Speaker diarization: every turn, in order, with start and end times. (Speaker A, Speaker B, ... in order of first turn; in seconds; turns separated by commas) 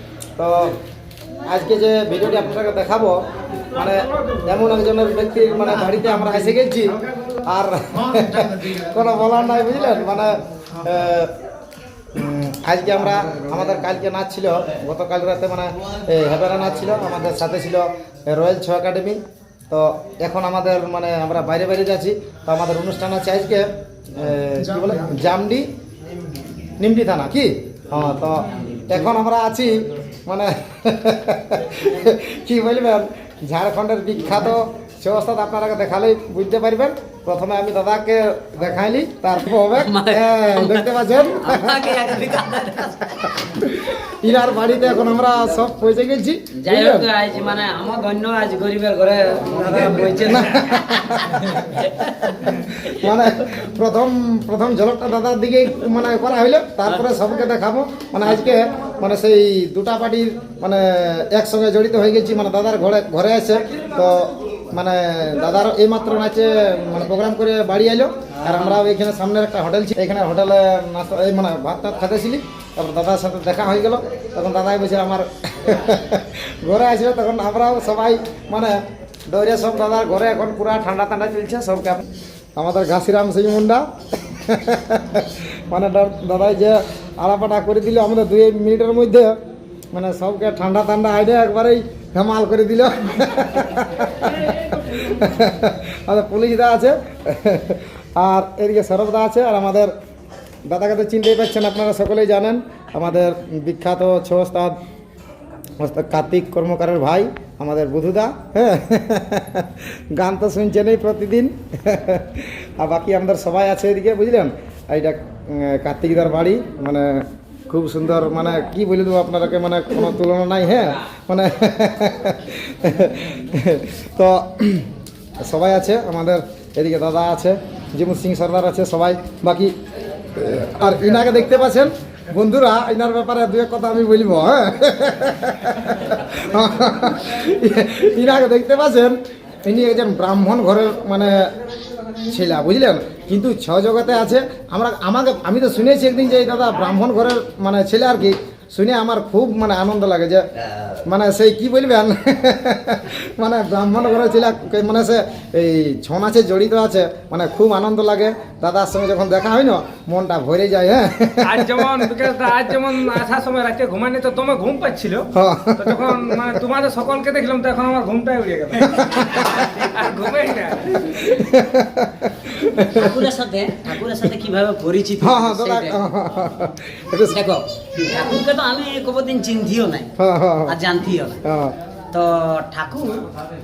Speaker A: 0.4-0.8, Speaker A: 1.4-11.3, Speaker B: 3.9-4.4, Speaker A: 12.1-25.7, Speaker A: 26.8-42.2, Speaker C: 27.9-29.1, Speaker C: 39.4-43.7, Speaker A: 43.4-47.1, Speaker C: 46.6-53.1, Speaker A: 49.7-51.6, Speaker A: 52.4-82.0, Speaker C: 68.3-68.8, Speaker A: 82.5-89.3, Speaker A: 89.9-99.9, Speaker B: 94.3-95.0, Speaker A: 100.6-104.8, Speaker A: 105.8-129.7, Speaker A: 130.3-141.5, Speaker A: 142.2-150.4, Speaker A: 151.1-162.2, Speaker B: 161.4-171.4, Speaker A: 162.8-163.2, Speaker A: 165.3-166.5, Speaker A: 169.0-169.3, Speaker C: 169.2-169.8, Speaker A: 171.2-173.2, Speaker C: 172.7-176.0, Speaker A: 175.2-177.4, Speaker C: 177.2-180.1, Speaker A: 180.2-180.8, Speaker C: 180.7-181.4, Speaker A: 181.4-181.7, Speaker C: 182.1-183.2